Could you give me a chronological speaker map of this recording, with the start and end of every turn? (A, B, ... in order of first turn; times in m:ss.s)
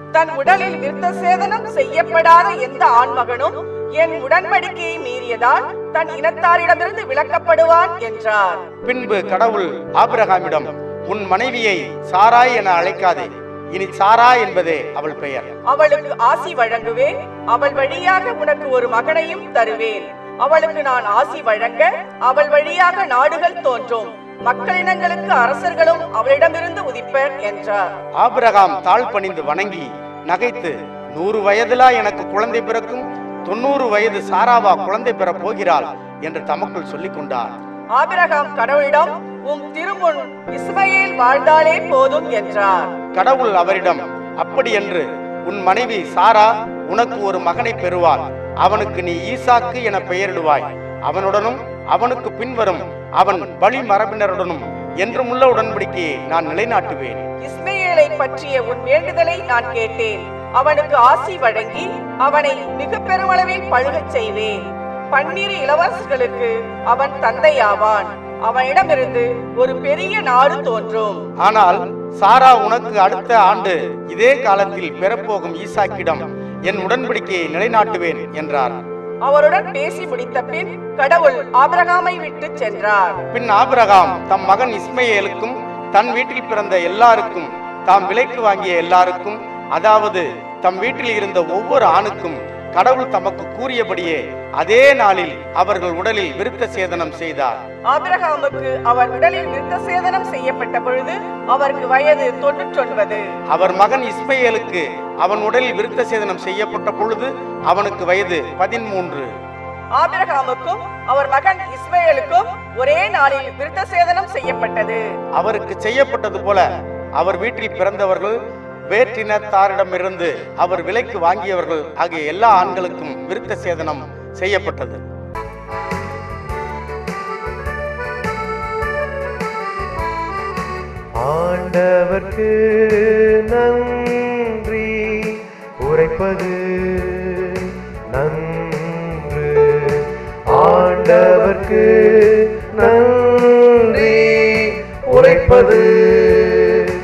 0:00.1-0:08.6 A
0:08.8-0:15.5 B
0:15.6-0:27.8 A
0:28.2-0:37.5 B
0:37.9-0:42.9 A
0:43.1-0:57.2 B
0:57.4-1:04.6 A
1:05.1-1:11.2 A
1:11.4-1:18.8 B
1:19.2-1:23.2 A
1:23.3-1:37.6 B
1:37.9-1:43.2 A
1:43.5-1:49.3 B
1:50.0-1:55.0 A
1:55.4-1:58.3 B
1:58.9-2:05.0 B
2:11.2-2:12.6 C
2:13.5-2:15.1 C
2:15.8-2:17.2 C
2:18.1-2:19.6 C
2:20.5-2:22.2 C
2:22.7-2:26.5 C